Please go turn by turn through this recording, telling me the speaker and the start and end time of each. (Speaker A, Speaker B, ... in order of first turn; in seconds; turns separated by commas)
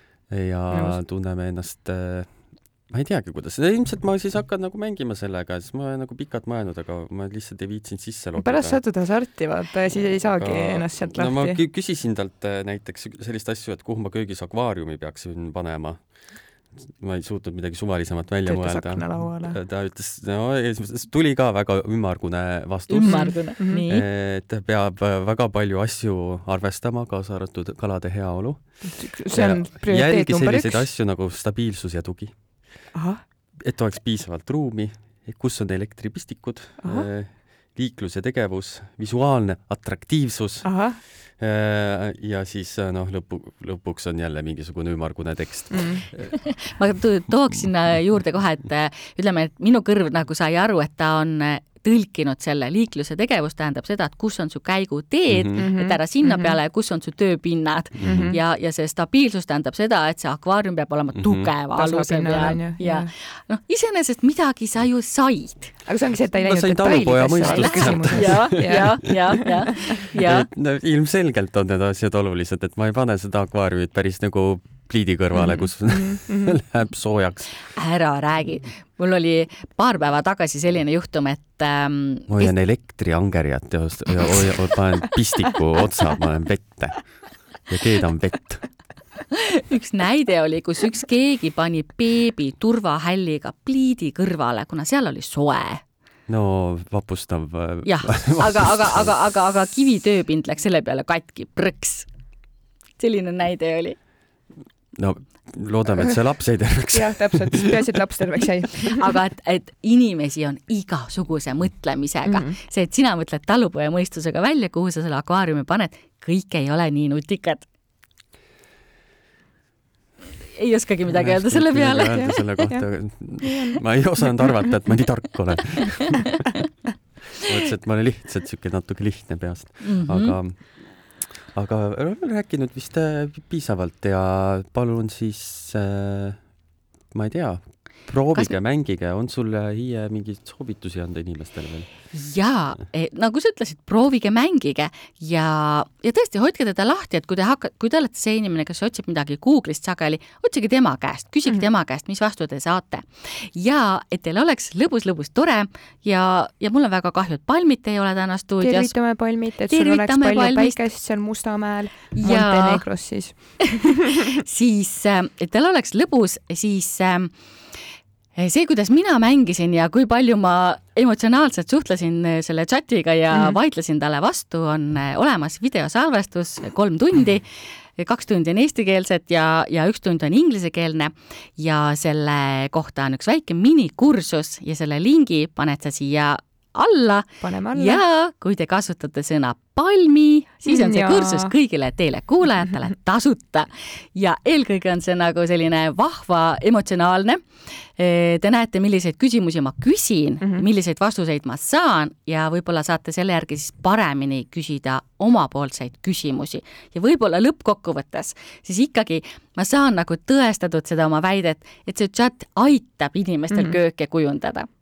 Speaker A: 0.3-8.8, Speaker B: 0.7-1.0, Speaker B: 8.4-11.6, Speaker A: 10.4-32.4, Speaker B: 18.4-19.6, Speaker C: 22.9-24.1, Speaker B: 23.0-23.8, Speaker B: 28.9-30.9, Speaker B: 32.9-33.2, Speaker A: 33.6-46.6, Speaker B: 36.8-37.1, Speaker B: 40.6-41.0, Speaker C: 46.3-65.7, Speaker A: 55.3-55.6, Speaker B: 55.6-56.5, Speaker A: 58.0-58.4, Speaker B: 58.0-58.4, Speaker A: 61.2-61.5, Speaker B: 61.7-63.1, Speaker B: 65.9-69.7, Speaker A: 66.5-77.6, Speaker C: 67.4-70.5, Speaker B: 75.4-76.5, Speaker C: 77.7-82.5, Speaker A: 82.3-88.8, Speaker C: 89.3-95.8, Speaker A: 96.3-99.2, Speaker C: 97.8-102.1, Speaker C: 103.0-104.0, Speaker A: 105.0-107.8, Speaker B: 106.9-109.1, Speaker C: 108.9-117.6, Speaker B: 112.2-112.5, Speaker C: 120.5-122.4, Speaker A: 121.1-126.4, Speaker B: 122.1-122.9, Speaker B: 123.4-123.8, Speaker A: 127.3-136.4, Speaker C: 129.8-130.4, Speaker A: 137.1-142.0, Speaker C: 142.1-158.9, Speaker B: 158.6-164.2, Speaker C: 159.7-160.8, Speaker C: 162.1-162.9, Speaker C: 164.3-167.3, Speaker C: 168.4-214.7, Speaker B: 187.4-188.0, Speaker B: 190.7-191.5